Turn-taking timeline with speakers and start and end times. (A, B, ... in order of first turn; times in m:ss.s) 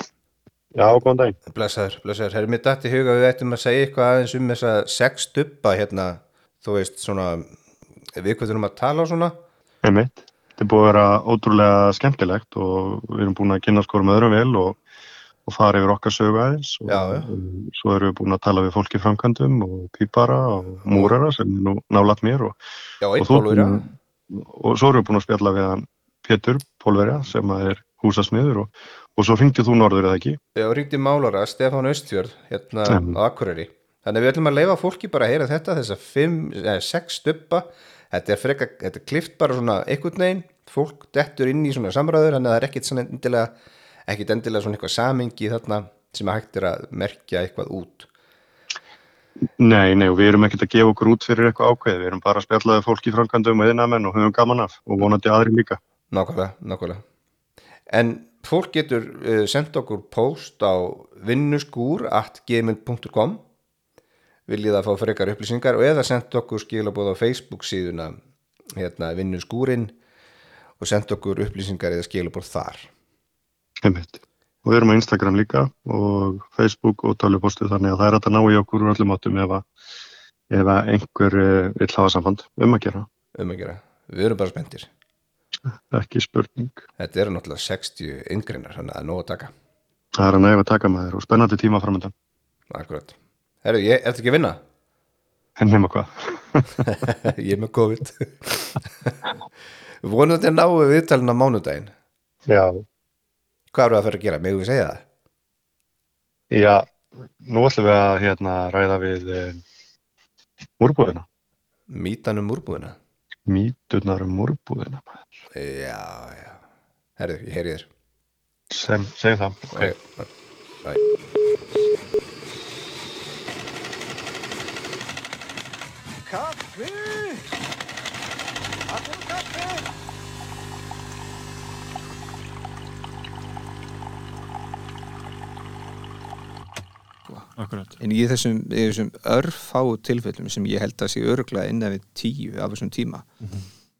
0:00.7-0:01.4 A
0:01.5-0:07.5 B
0:08.2-0:09.3 B
0:09.8-0:14.8 A
0:15.4-0:22.6 A
0:16.9-0:17.3 B
0:23.0-0:23.8 B
0:23.2-0:30.4 A
0:30.5-0:43.5 B
0:32.9-0:33.2 A
0:44.1-0:48.1 B
0:49.6-0:55.8 A
0:56.1-0:57.0 B
0:57.9-1:03.4 B
1:04.5-1:08.2 B
1:08.8-1:09.9 B
1:10.8-1:12.9 B
1:13.8-1:19.6 A
1:20.5-1:23.1 A
1:23.4-1:24.9 B
1:25.9-1:26.8 A
1:27.0-1:29.5 B
1:30.2-1:32.1 A
1:32.7-1:34.6 B
1:35.6-1:36.8 A
1:37.0-1:39.1 B
1:40.0-1:41.9 B
1:42.5-1:42.8 A
1:43.7-1:45.0 B
1:46.5-1:46.8 A
1:47.4-1:49.6 A
1:50.8-1:51.2 A
1:51.9-1:53.0 B
1:53.4-1:55.2 A
1:55.5-1:56.6 B
1:57.2-1:57.9 B
1:58.7-1:59.9 A
1:59.7-2:00.2 B
2:08.9-2:09.8 C
2:17.6-2:18.0 A
2:18.0-2:23.2 C